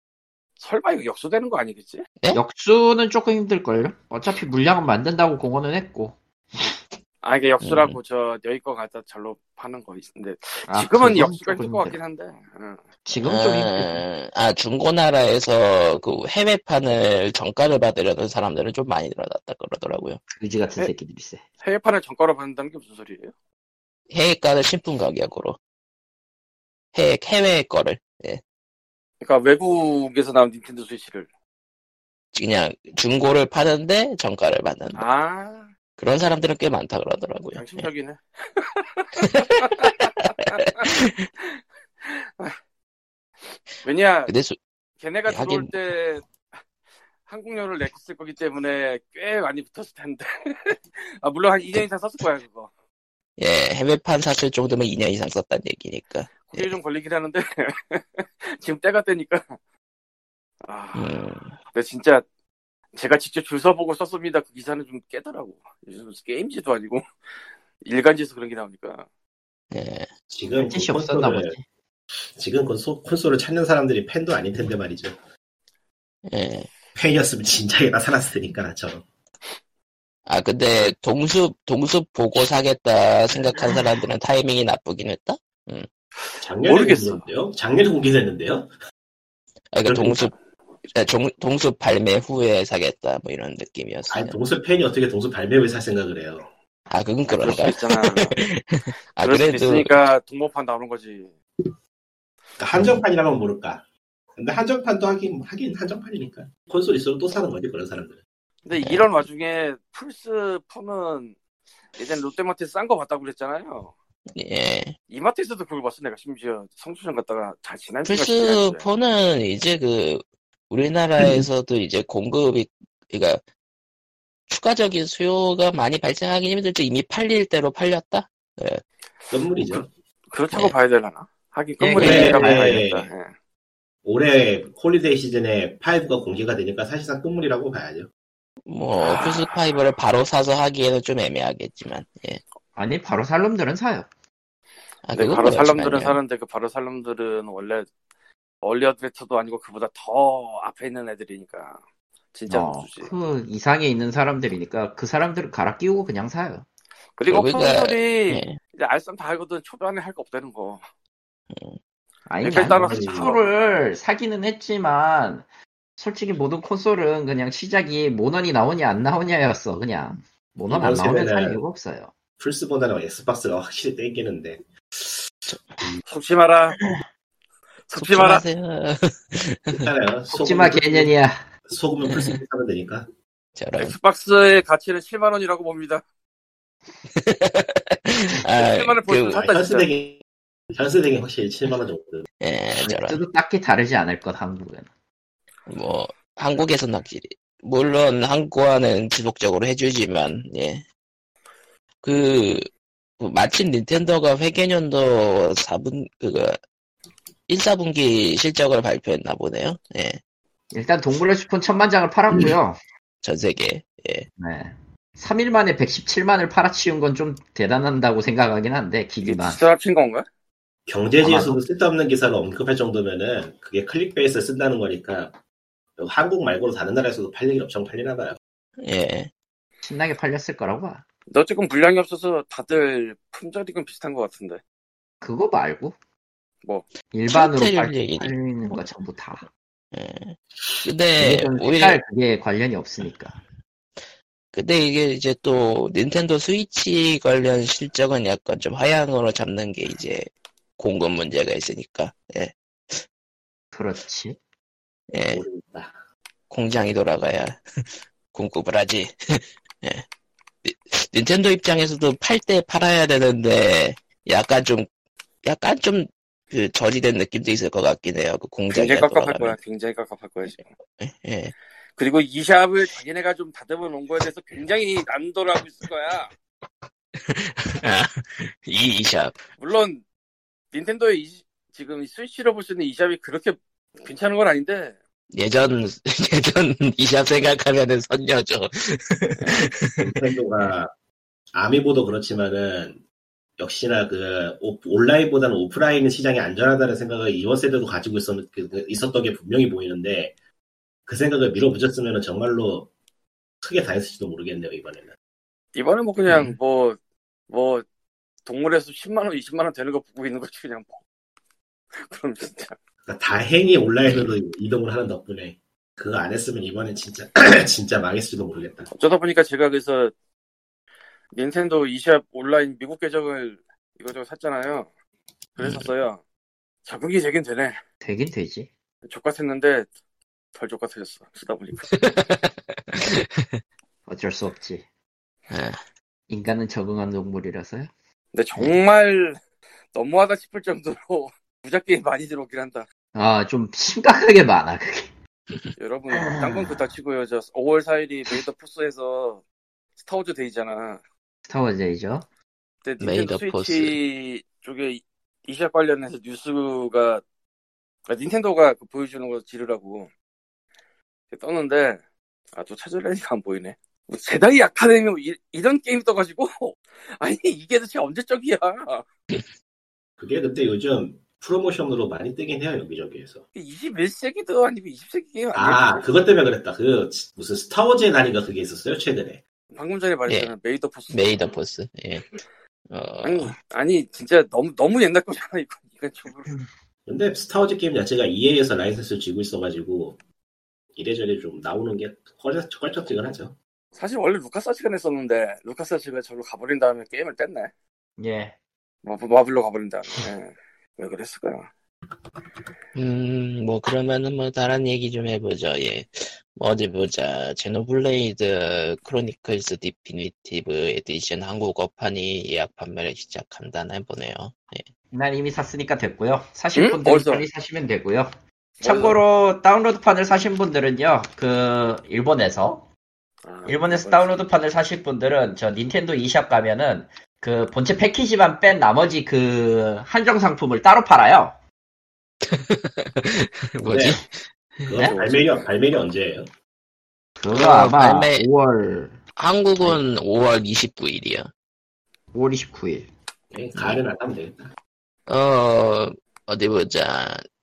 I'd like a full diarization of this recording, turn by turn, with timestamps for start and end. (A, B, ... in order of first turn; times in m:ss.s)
0:00.6-0:02.0 A
0:02.3-0:06.7 B
0:07.2-0:12.8 A
0:07.6-0:08.0 C
0:10.7-0:12.0 B
0:13.0-0:14.0 B
0:13.2-0:20.2 C
0:20.3-0:21.4 B
0:21.6-0:23.3 A
0:24.1-0:25.6 C
0:26.9-0:28.4 C
0:29.2-0:31.3 A
0:32.3-0:35.0 C
0:34.9-0:35.7 A
0:36.0-0:37.9 C
0:37.6-0:40.9 A
0:39.2-0:39.9 C
0:40.8-0:41.3 C
0:42.0-0:42.6 A
0:43.8-0:44.3 A
0:44.3-0:44.6 C
0:45.0-0:46.2 A
0:45.3-0:45.7 C
0:47.2-0:52.7 A
0:53.4-0:56.7 C
0:56.4-0:59.6 A
1:00.6-1:01.2 A
1:00.9-1:01.6 C
1:01.7-1:02.2 A
1:02.9-1:07.0 A
1:07.8-1:09.1 A
1:09.7-1:10.1 C
1:10.3-1:11.5 D
1:10.5-1:11.6 B
1:12.3-1:15.2 D
1:16.3-1:16.7 C
1:16.9-1:19.0 D
1:20.3-1:25.9 C
1:26.3-1:27.2 A
1:26.4-1:28.7 D
1:29.7-1:30.3 C
1:29.8-1:30.3 D
1:30.9-1:34.4 C
1:34.1-1:36.5 D
1:36.9-1:39.9 C
1:37.4-1:38.4 A
1:39.2-1:41.3 A
1:42.6-1:43.8 D
1:42.7-1:43.0 C
1:44.4-1:48.2 D
1:48.6-1:51.4 A
1:48.8-1:49.1 C
1:52.0-1:53.9 A
1:54.3-1:55.0 C
1:55.1-1:58.8 A
1:58.0-2:03.4 C
2:04.5-2:08.8 C
2:09.3-2:09.9 D
2:10.3-2:13.3 A
2:11.8-2:12.8 B
2:12.0-2:13.1 D
2:12.0-2:12.3 C
2:14.0-2:18.1 D
2:18.6-2:22.4 C
2:19.0-2:19.6 A
2:22.8-2:24.1 B
2:25.0-2:26.2 C
2:25.1-2:27.9 A
2:28.6-2:31.8 A
2:32.3-2:33.1 A
2:32.5-2:36.6 B
2:37.2-2:40.8 A
2:37.3-2:38.6 C
2:41.5-2:41.8 C
2:42.3-2:45.5 B
2:42.4-2:43.5 A
2:42.7-2:43.4 D
2:46.0-2:52.1 B
2:50.7-2:51.6 D
2:52.4-2:55.2 D
2:56.1-2:56.8 A
2:57.9-2:58.4 A
2:58.0-2:59.9 C
2:59.7-3:01.1 D
3:00.3-3:01.4 B
3:01.7-3:03.1 D
3:02.0-3:02.4 C
3:03.6-3:04.0 C
3:03.8-3:06.0 A
3:07.1-3:09.4 C
3:08.5-3:09.9 A
3:09.4-3:10.2 D
3:10.7-3:12.3 D
3:12.4-3:13.2 C
3:12.8-3:14.9 B
3:15.7-3:20.8 C
3:22.0-3:26.6 C
3:27.5-3:30.2 C
3:30.7-3:32.8 B
3:33.2-3:34.3 C
3:34.4-3:39.6 B
3:39.2-3:40.2 A
3:40.9-3:45.3 D
3:41.2-3:41.6 B
3:46.0-3:48.4 D
3:48.8-3:49.3 C
3:49.8-3:51.0 B
3:51.3-3:54.6 A
3:55.2-3:56.0 B
3:57.1-3:59.4 B
3:57.3-3:58.3 C
3:59.9-4:02.0 C
4:01.2-4:03.4 B
4:04.5-4:13.0 C
4:13.7-4:14.4 B
4:15.1-4:15.4 C
4:15.3-4:16.0 D
4:16.5-4:20.0 C
4:20.6-4:24.9 C
4:25.4-4:29.6 C
4:28.7-4:30.6 A
4:31.0-4:31.5 C
4:32.0-4:36.3 A
4:37.2-4:39.4 C
4:39.6-4:40.0 A
4:40.7-4:45.0 A
4:45.3-4:50.3 C
4:49.4-4:49.6 A
4:50.0-4:50.9 D
4:51.5-4:53.0 D
4:53.6-5:00.3 D
5:01.1-5:02.9 D
5:03.6-5:05.1 D
5:05.7-5:07.0 A
5:06.3-5:06.5 C
5:07.5-5:07.8 A
5:08.4-5:11.0 A
5:12.0-5:12.8 A
5:13.0-5:18.9 D
5:14.1-5:14.3 C
5:18.9-5:20.1 A
5:21.3-5:24.9 A
5:25.6-5:26.2 A
5:25.6-5:25.9 C
5:26.8-5:27.8 A
5:28.0-5:28.7 B
5:29.0-5:29.9 A
5:30.5-5:31.9 A
5:31.9-5:33.6 C
5:34.1-5:34.8 B
5:35.5-5:35.8 C
5:36.3-5:37.9 B
5:38.3-5:39.4 A
5:39.9-5:42.8 A
5:43.1-5:45.1 B
5:45.8-5:49.4 A
5:46.1-5:46.8 B
5:50.0-5:51.0 A
5:51.5-5:52.2 B
5:52.8-5:57.2 A
5:53.0-5:54.0 C
5:58.1-6:00.1 A
6:01.3-6:02.0 A
6:02.5-6:09.0 A
6:10.2-6:13.4 D
6:13.5-6:16.0 A
6:15.5-6:19.4 D
6:19.7-6:21.6 A
6:20.3-6:20.5 C
6:21.1-6:22.4 C
6:22.9-6:23.5 C
6:23.2-6:26.5 A
6:27.1-6:30.2 D
6:31.0-6:33.6 D
6:34.0-6:37.7 A
6:38.2-6:38.6 B
6:39.0-6:41.7 A
6:42.9-6:54.8 C
6:55.1-7:02.9 B
6:56.7-6:57.5 A
6:58.8-6:59.2 A
7:03.4-7:04.4 A
7:03.6-7:11.5 B
7:12.4-7:14.9 C
7:13.9-7:14.2 D
7:14.8-7:16.5 D
7:15.0-7:15.5 A
7:17.4-7:19.2 B
7:17.5-7:18.5 C
7:19.4-7:21.5 C
7:22.3-7:23.1 B
7:23.5-7:24.7 D
7:23.7-7:24.0 C
7:25.3-7:27.4 C